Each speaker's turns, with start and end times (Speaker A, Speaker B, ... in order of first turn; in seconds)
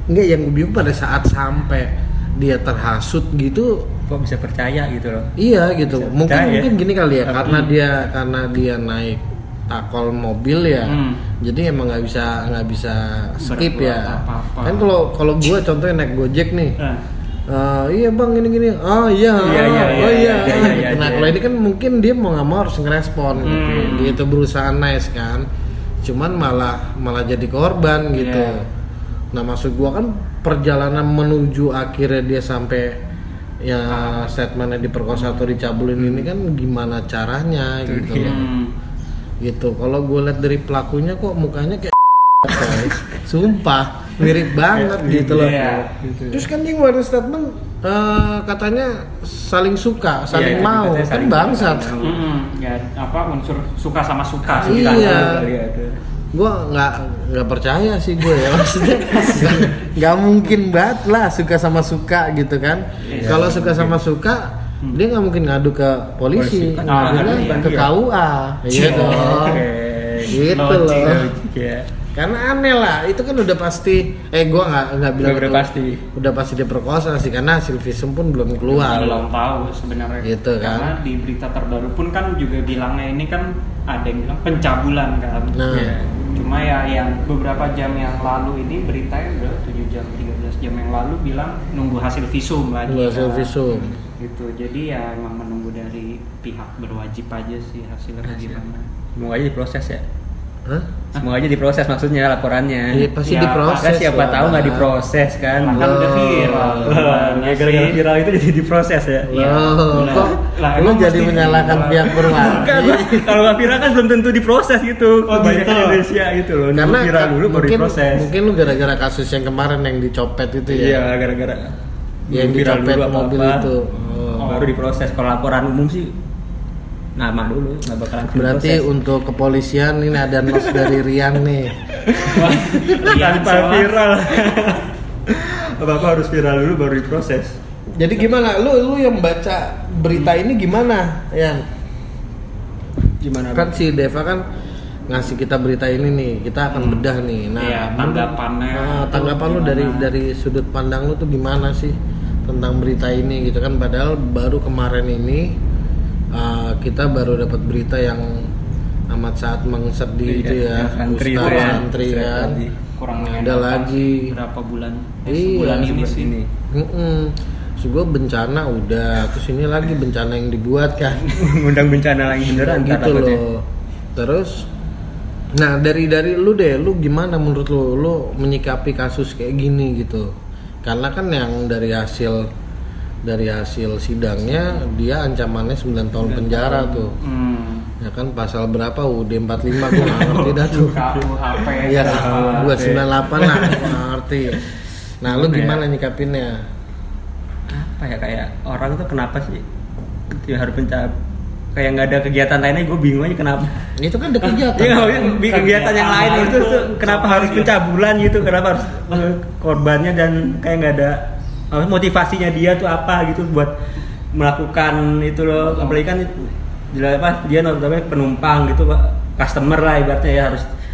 Speaker A: 0.1-3.9, 5.4-16.8, 17.5-25.5, 26.0-28.6, 29.3-33.0, 33.6-38.5, 39.4-45.7, 46.3-52.0, 54.6-55.5, 56.3-69.7, 70.3-71.3, 72.2-79.2, 80.2-81.0, 85.5-86.0, 92.9-94.0, 102.9-104.9, 105.8-107.0, 109.3-113.4, 116.7-121.0, 122.3-124.5, 128.3-131.8, 138.0-141.7, 143.6-144.4, 145.1-155.6, 156.3-158.5, 159.1-162.6, 163.2-164.3, 165.3-165.9, 166.7-171.3, 172.5-174.7, 175.5-180.3, 180.8-182.5, 183.2-187.2, 188.0-191.0, 191.9-194.6, 195.2-196.6, 204.0-205.4
Speaker B: 4.1-5.3, 5.9-6.7, 7.2-7.7, 19.4-21.4, 23.5-23.8, 37.9-38.5, 42.6-43.0, 44.3-46.5, 50.3-52.2, 54.5-56.0, 63.0-64.0, 66.3-67.9, 68.7-70.4, 71.0-71.9, 75.2-76.1, 78.8-79.1, 85.7-86.1, 98.2-98.6, 99.2-100.0, 101.2-103.1, 103.8-105.9, 106.5-109.4, 110.0-110.3, 112.1-118.3, 120.7-121.8, 122.3-123.7, 124.5-126.1, 127.2-128.9, 130.5-131.0, 132.0-137.6, 143.2-143.8, 160.3-162.7, 165.7-166.5, 171.3-173.4, 186.2-187.1, 189.8-194.0, 195.2-195.8, 197.7-199.6, 200.3-201.1, 201.8-203.8, 204.6-213.8, 214.3-220.7
Speaker C: 10.8-11.2, 13.4-14.9, 19.4-20.9, 23.4-24.2, 28.1-28.6, 33.9-34.3, 35.1-35.4, 38.2-38.7, 45.4-45.9, 52.0-55.3, 59.0-59.7, 63.1-63.5, 66.9-67.7, 68.7-69.6, 70.4-71.2, 78.8-85.6, 86.3-98.9, 103.2-104.0, 105.6-108.0, 109.3-112.7, 115.3-116.0, 124.4-124.8, 132.2-134.0, 146.7-147.0, 147.6-150.1, 161.4-161.9, 163.0-166.3, 187.2-187.9, 190.1-192.8, 205.2-207.7, 215.7-216.0